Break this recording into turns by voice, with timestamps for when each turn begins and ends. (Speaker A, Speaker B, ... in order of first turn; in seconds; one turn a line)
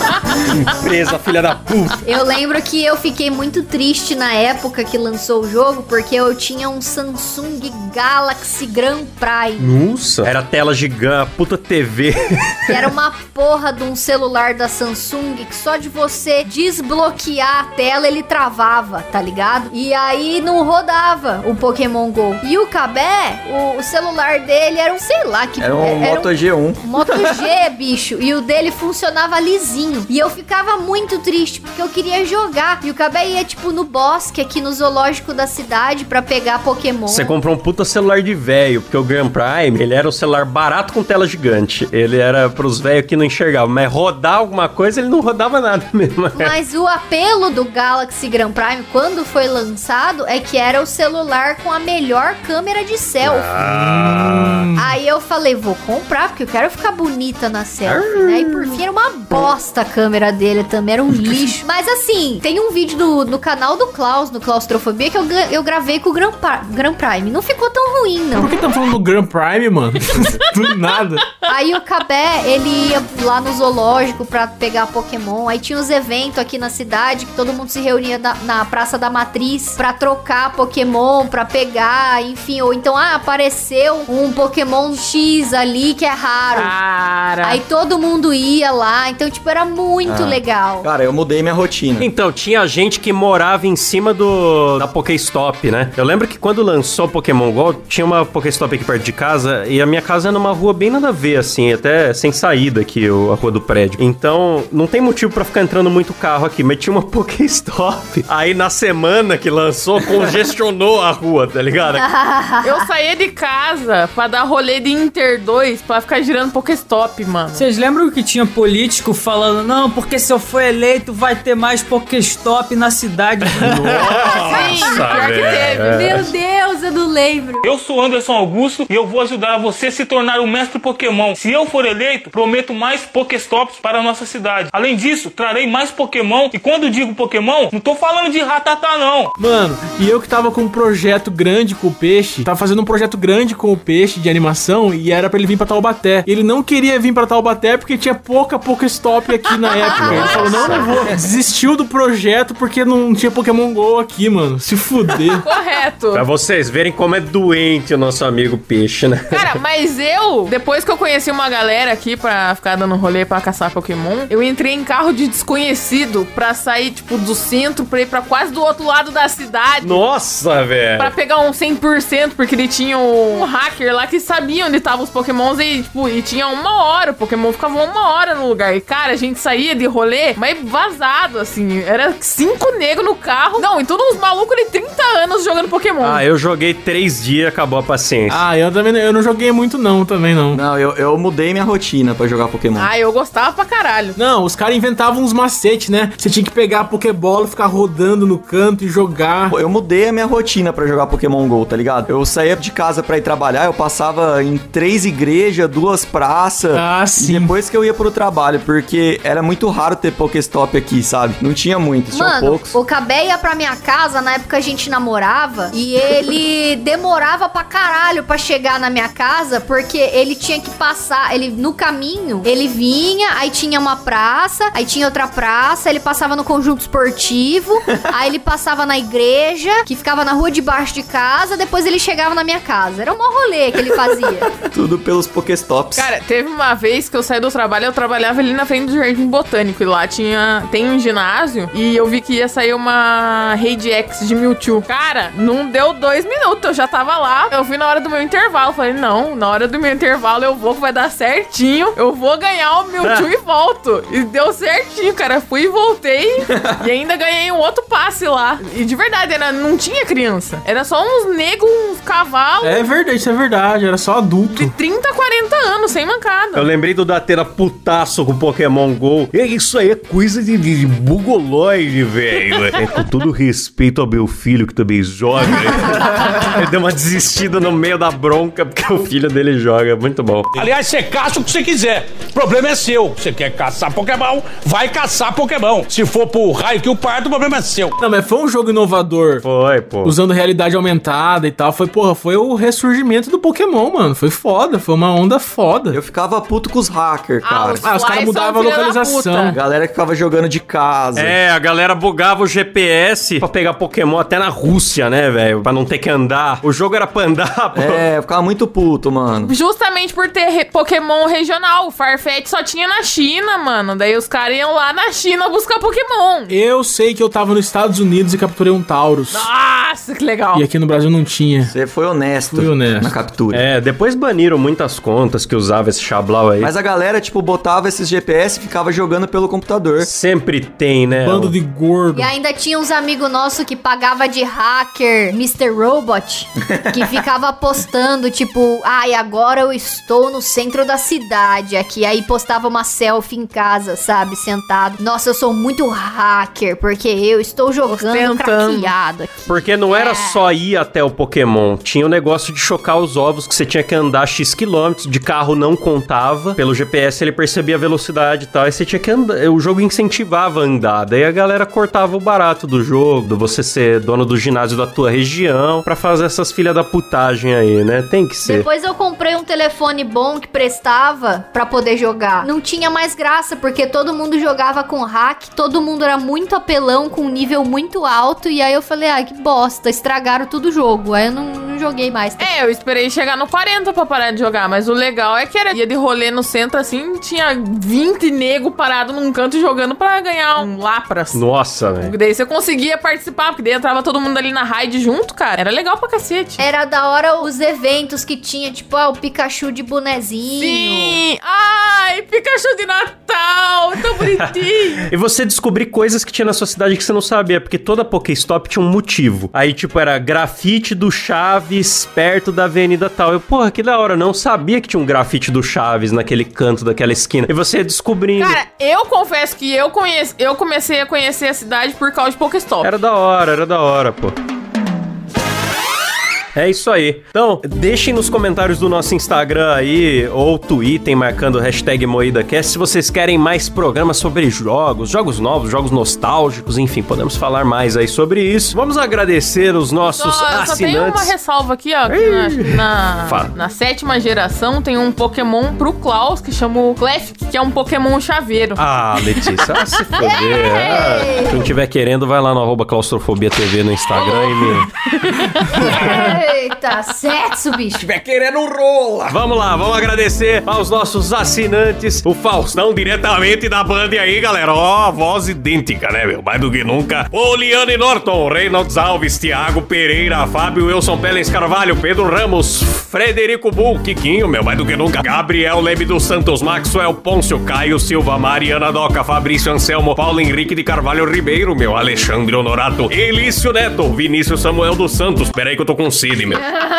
Speaker A: 0.4-2.0
Speaker B: 2.0-9.8
Speaker A: 9.6-12.8
Speaker B: 12.7-37.3
Speaker C: 25.6-27.4
Speaker A: 37.1-46.5
Speaker B: 46.3-53.5
Speaker A: 53.2-54.7
Speaker D: 53.6-54.8
Speaker B: 54.8-68.5
Speaker A: 57.8-58.8
Speaker D: 68.4-71.2
Speaker B: 71.5-86.7
Speaker E: 86.5-87.6
Speaker B: 87.4-90.9
Speaker C: 90.0-92.1
Speaker A: 92.0-112.1
Speaker B: 111.9-112.9
Speaker E: 112.6-117.6
Speaker F: 117.5-124.2
Speaker A: 123.6-126.3
Speaker E: 124.1-125.9
Speaker B: 124.2-127.7
Speaker G: 127.6-139.3
Speaker D: 139.4-155.4
Speaker B: 149.8-150.8
Speaker A: 149.9-151.1
Speaker E: 155.3-156.2
Speaker A: 156.1-159.5
Speaker E: 159.3-170.0
Speaker A: 169.8-171.1
Speaker E: 171.0-186.2
Speaker A: 186.0-188.4
Speaker D: 188.3-190.6
Speaker C: 190.5-192.9
Speaker E: 192.8-194.2
Speaker D: 194.2-199.6
Speaker C: 199.5-212.8
Speaker D: 206.7-207.5
Speaker B: 212.1-234.5
Speaker C: 234.5-236.1
Speaker E: 235.9-262.9
Speaker A: 253.0-253.3
Speaker C: 256.6-256.8
Speaker D: 262.6-264.7
Speaker E: 264.5-266.7
Speaker A: 266.6-280.6
Speaker H: 280.5-287.9
Speaker D: 288.0-289.4
Speaker A: 289.4-290.1
Speaker D: 290.0-296.0
Speaker C: 295.9-297.9
Speaker E: 297.4-299.6
Speaker D: 297.8-299.5
Speaker C: 299.5-301.4
Speaker A: 301.1-308.1
Speaker C: 307.7-309.5
Speaker E: 309.4-316.5
Speaker D: 316.5-319.5
Speaker E: 319.3-320.6
Speaker D: 320.5-321.7
Speaker C: 321.7-323.6
Speaker D: 322.5-323.1
Speaker A: 323.5-326.7
Speaker C: 326.6-330.1
Speaker A: 330.0-331.5
Speaker D: 331.2-332.3
Speaker B: 332.1-350.5
Speaker C: 336.8-337.2
Speaker E: 347.8-348.9
Speaker A: 349.5-368.6
Speaker B: 368.4-382.5
Speaker E: 382.4-391.4
Speaker A: 391.3-392.1
Speaker E: 392.0-396.6
Speaker B: 396.6-401.2
Speaker E: 400.6-405.1
Speaker A: 404.2-418.6
Speaker E: 418.4-422.9
Speaker A: 422.8-424.3
Speaker A: 426.5-441.3
Speaker E: 440.1-448.8
Speaker A: 442.1-443.5
Speaker A: 448.8-454.9
Speaker B: 450.2-451.7
Speaker E: 455.1-455.8
Speaker B: 455.8-458.0
Speaker A: 455.8-456.2
Speaker H: 457.9-459.4
Speaker A: 459.3-486.7